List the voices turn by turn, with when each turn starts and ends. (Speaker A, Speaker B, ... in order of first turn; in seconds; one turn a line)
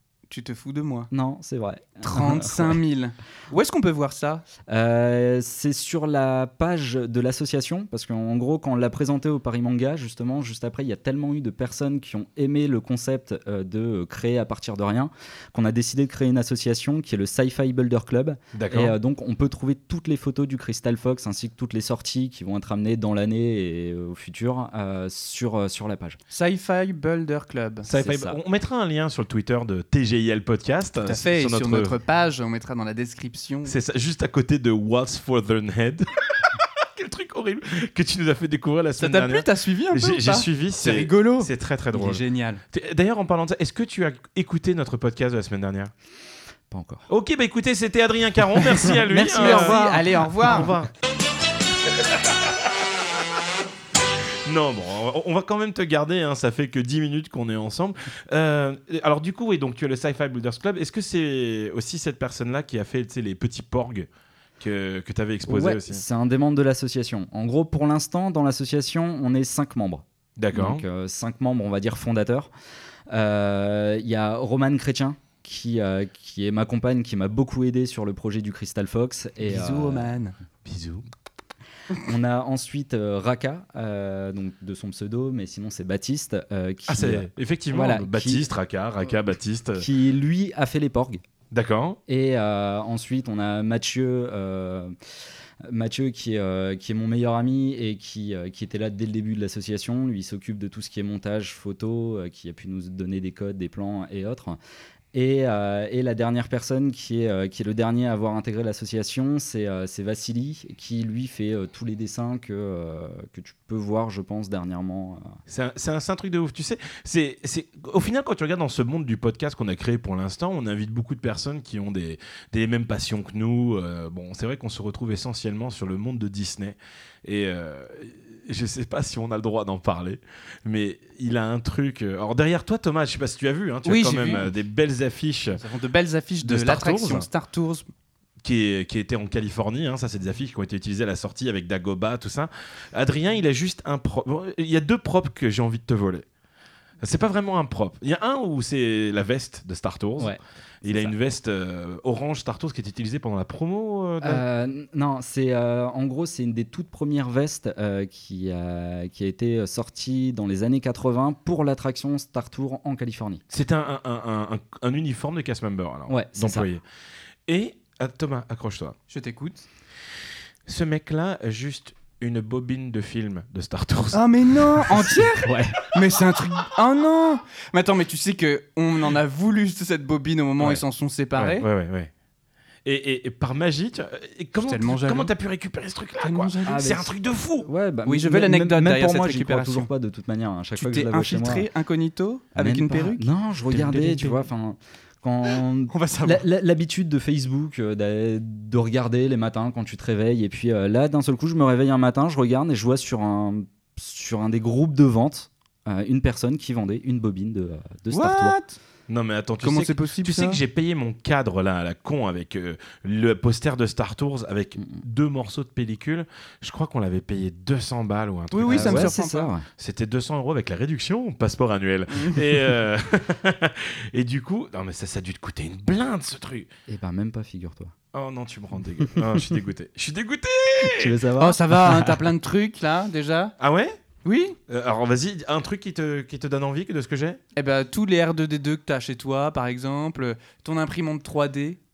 Speaker A: 0.3-1.1
Speaker B: 1.1-2.8
Speaker A: 2.0-4.4
Speaker B: 4.7-26.2
Speaker C: 18.5-18.9
Speaker A: 26.3-27.9
Speaker C: 27.9-31.9
Speaker B: 27.9-28.4
Speaker A: 31.0-33.7
Speaker C: 33.7-36.1
Speaker C: 36.9-45.9
Speaker A: 39.0-42.6
Speaker B: 46.7-47.1
Speaker C: 47.1-50.9
Speaker B: 49.1-50.0
Speaker A: 49.1-50.7
Speaker C: 54.5-64.1
Speaker C: 64.6-66.0
Speaker B: 65.5-72.5
Speaker C: 70.4-70.8
Speaker B: 73.1-80.1
Speaker A: 79.4-80.3
Speaker C: 80.7-81.0
Speaker B: 82.0-88.4
Speaker C: 86.9-89.8
Speaker B: 89.8-91.2
Speaker C: 91.5-92.0
Speaker B: 92.1-94.9
Speaker B: 95.6-104.6
Speaker B: 105.1-115.4
Speaker C: 115.5-135.6
Speaker A: 133.8-134.5
Speaker A: 135.5-137.9
Speaker C: 136.4-137.3
Speaker C: 138.4-146.2
Speaker C: 147.0-154.4
Speaker B: 150.2-151.1
Speaker B: 154.2-163.4
Speaker C: 163.5-166.8
Speaker B: 166.1-166.7
Speaker C: 167.5-168.9
Speaker A: 169.1-169.7
Speaker C: 170.7-175.2
Speaker A: 174.1-181.7
Speaker B: 175.4-175.8
Speaker C: 181.4-182.1
Speaker C: 182.8-187.7
Speaker A: 184.6-185.3
Speaker A: 186.2-187.0
Speaker B: 186.7-187.1
Speaker B: 187.6-191.7
Speaker A: 188.1-189.9
Speaker A: 190.8-193.3
Speaker B: 192.6-208.6
Speaker A: 193.9-194.3
Speaker A: 195.9-196.4
Speaker A: 208.1-208.8
Speaker C: 209.1-219.2
Speaker A: 209.6-210.6
Speaker A: 218.5-219.5
Speaker B: 218.7-219.7
Speaker C: 219.8-226.7
Speaker A: 222.2-222.6
Speaker B: 226.9-227.9
Speaker C: 228.1-231.2
Speaker B: 230.8-232.2
Speaker A: 231.4-233.6
Speaker C: 233.6-234.0
Speaker A: 234.2-234.6
Speaker C: 234.7-237.4
Speaker A: 237.6-241.8